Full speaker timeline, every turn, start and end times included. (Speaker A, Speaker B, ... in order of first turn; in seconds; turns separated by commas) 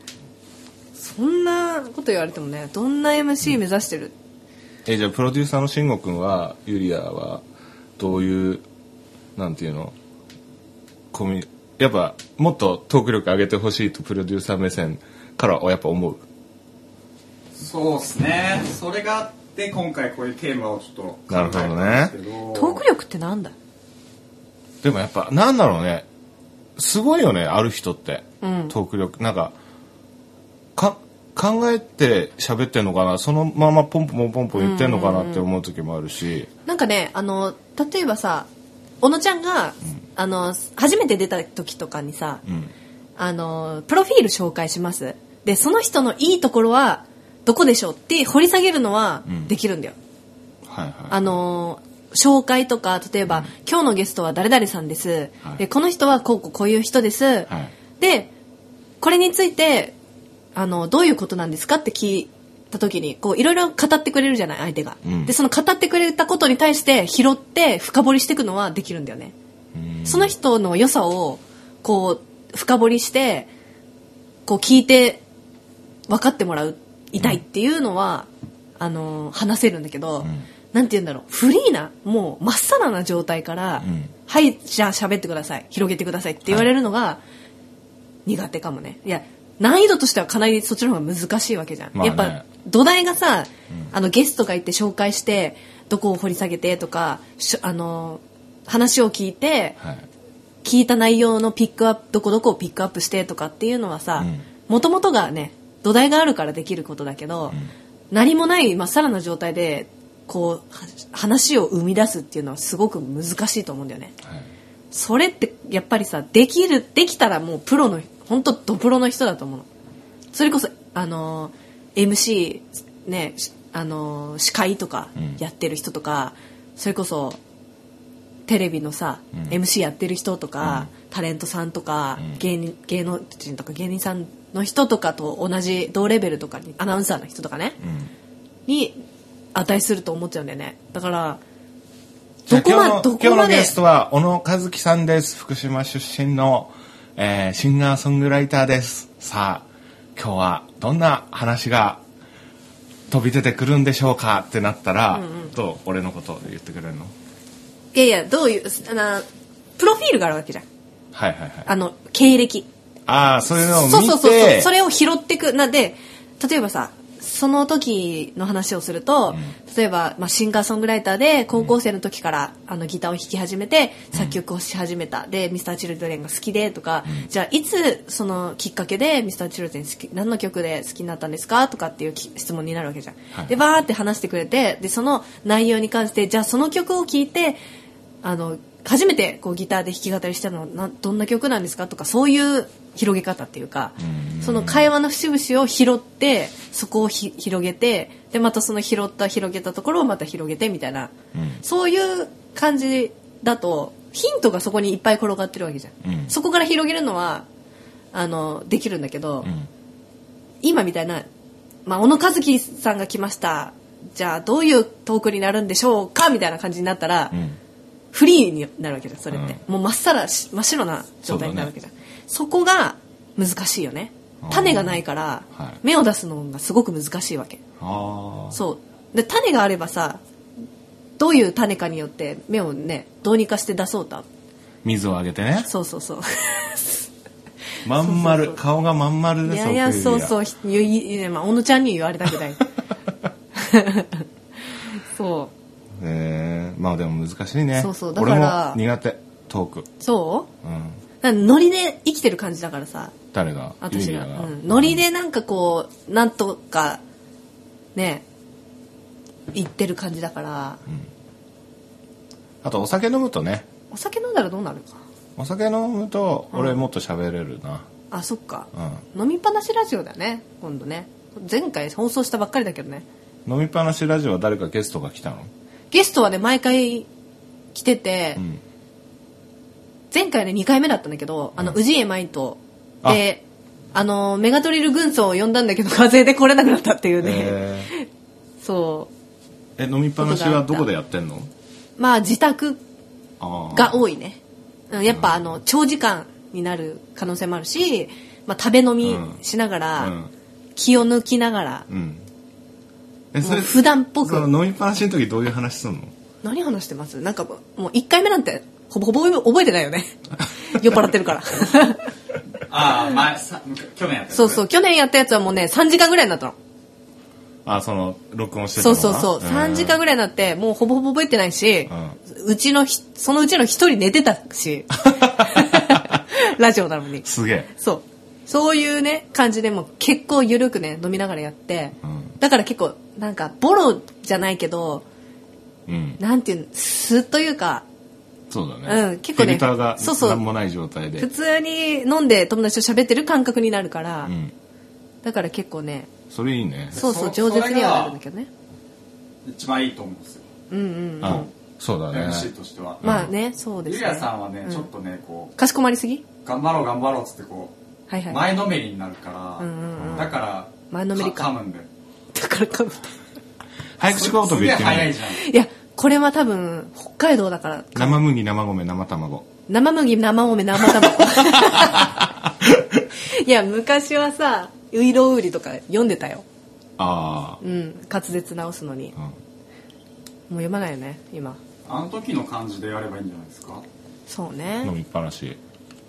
Speaker A: 1.0-4.1, Speaker B: 4.8-7.4, Speaker B: 8.0-8.6, Speaker B: 9.3-9.9, Speaker B: 11.1-16.2, Speaker C: 17.6-22.8, Speaker B: 21.3-22.1, Speaker A: 22.5-23.5, Speaker B: 24.8-26.1, Speaker B: 26.8-29.5, Speaker A: 28.4-28.7, Speaker B: 30.8-36.5, Speaker A: 34.5-35.5, Speaker A: 36.6-38.5, Speaker A: 39.0-42.4, Speaker B: 42.4-42.7, Speaker A: 43.2-50.0, Speaker B: 50.6-51.4, Speaker A: 51.1-58.3, Speaker A: 59.0-59.9, Speaker A: 60.5-69.3, Speaker B: 65.0-65.3, Speaker B: 69.7-70.3, Speaker A: 70.0-73.5, Speaker A: 74.5-75.2, Speaker A: 76.1-87.2, Speaker B: 83.8-84.1, Speaker A: 88.2-99.8, Speaker B: 91.9-92.4, Speaker B: 99.8-100.1, Speaker A: 100.6-107.6, Speaker B: 104.2-104.4, Speaker A: 108.1-114.1, Speaker B: 114.2-114.5, Speaker A: 114.9-119.7, Speaker A: 120.3-127.4, Speaker A: 128.5-137.8, Speaker B: 130.6-130.9, Speaker B: 137.8-138.1, Speaker A: 138.7-139.0, Speaker A: 139.5-141.4, Speaker B: 142.5-152.0, Speaker A: 142.5-143.7, Speaker B: 153.1-157.1, Speaker A: 155.1-155.5, Speaker A: 157.9-159.2, Speaker A: 159.8-160.6, Speaker B: 161.1-161.7, Speaker A: 161.7-162.7, Speaker B: 163.1-164.7, Speaker A: 163.7-187.6, Speaker A: 188.2-207.4, Speaker B: 194.0-194.9, Speaker B: 201.3-201.6, Speaker B: 206.0-206.3, Speaker A: 208.1-209.5, Speaker B: 209.4-209.7, Speaker A: 210.6-211.3, Speaker A: 211.8-217.4, Speaker B: 217.3-217.6, Speaker A: 218.1-227.6, Speaker B: 219.3-219.6, Speaker B: 221.2-221.7, Speaker B: 224.4-225.0, Speaker B: 225.5-225.8, Speaker B: 227.8-228.6, Speaker A: 228.5-230.2, Speaker A: 231.2-234.2, Speaker B: 234.8-235.7, Speaker A: 235.6-237.1, Speaker B: 237.8-240.3, Speaker A: 238.0-238.6, Speaker A: 239.4-242.6, Speaker A: 243.5-245.5, Speaker B: 245.9-249.9, Speaker A: 247.8-248.8, Speaker A: 250.0-250.5, Speaker B: 250.6-251.0, Speaker A: 251.2-253.2, Speaker B: 253.3-255.0, Speaker A: 253.8-257.0, Speaker A: 257.9-258.2, Speaker A: 259.5-260.8, Speaker B: 262.6-263.7, Speaker A: 263.9-265.0, Speaker B: 265.4-267.9, Speaker A: 268.1-273.0, Speaker B: 268.7-269.0, Speaker B: 273.4-275.5, Speaker A: 275.9-277.1, Speaker A: 277.7-278.4, Speaker A: 280.1-283.4, Speaker A: 283.9-288.1, Speaker B: 287.2-287.9, Speaker A: 288.6-289.1, Speaker B: 289.8-291.5, Speaker A: 290.2-290.9, Speaker A: 292.0-292.8, Speaker B: 293.4-294.0, Speaker A: 293.7-294.4, Speaker A: 294.9-300.1, Speaker B: 295.1-295.4, Speaker B: 299.0-299.4, Speaker B: 300.0-300.3, Speaker A: 300.8-301.9, Speaker B: 301.9-302.2, Speaker B: 303.3-306.1, Speaker A: 303.4-304.5, Speaker A: 306.4-312.1, Speaker C: 312.7-314.6, Speaker A: 314.3-316.5, Speaker B: 317.6-320.0, Speaker A: 318.8-335.0, Speaker B: 321.9-322.2, Speaker B: 325.1-326.2, Speaker B: 327.2-327.7, Speaker B: 332.0-332.3, Speaker B: 335.9-336.2, Speaker A: 336.2-337.8, Speaker B: 338.5-341.3, Speaker A: 338.9-340.4, Speaker A: 341.2-344.3, Speaker B: 344.2-344.5, Speaker A: 345.2-346.1, Speaker B: 346.3-347.0, Speaker C: 346.9-348.2, Speaker A: 346.9-348.5, Speaker C: 349.4-350.5, Speaker A: 350.7-351.5, Speaker B: 351.2-353.3, Speaker C: 352.1-353.3, Speaker A: 353.0-354.9, Speaker C: 353.8-355.5, Speaker A: 355.6-356.2, Speaker C: 356.4-357.7, Speaker A: 358.1-358.4, Speaker C: 358.3-361.9, Speaker A: 359.6-361.5, Speaker B: 360.0-360.3, Speaker A: 362.3-363.1, Speaker B: 364.0-365.2, Speaker C: 364.1-365.4, Speaker A: 365.3-368.2, Speaker B: 367.9-369.5, Speaker A: 369.7-372.2, Speaker B: 370.8-373.1, Speaker A: 373.1-376.4, Speaker B: 377.0-377.6, Speaker A: 377.6-379.1, Speaker A: 380.5-381.6, Speaker C: 381.9-383.8, Speaker A: 384.3-384.9, Speaker B: 384.8-385.6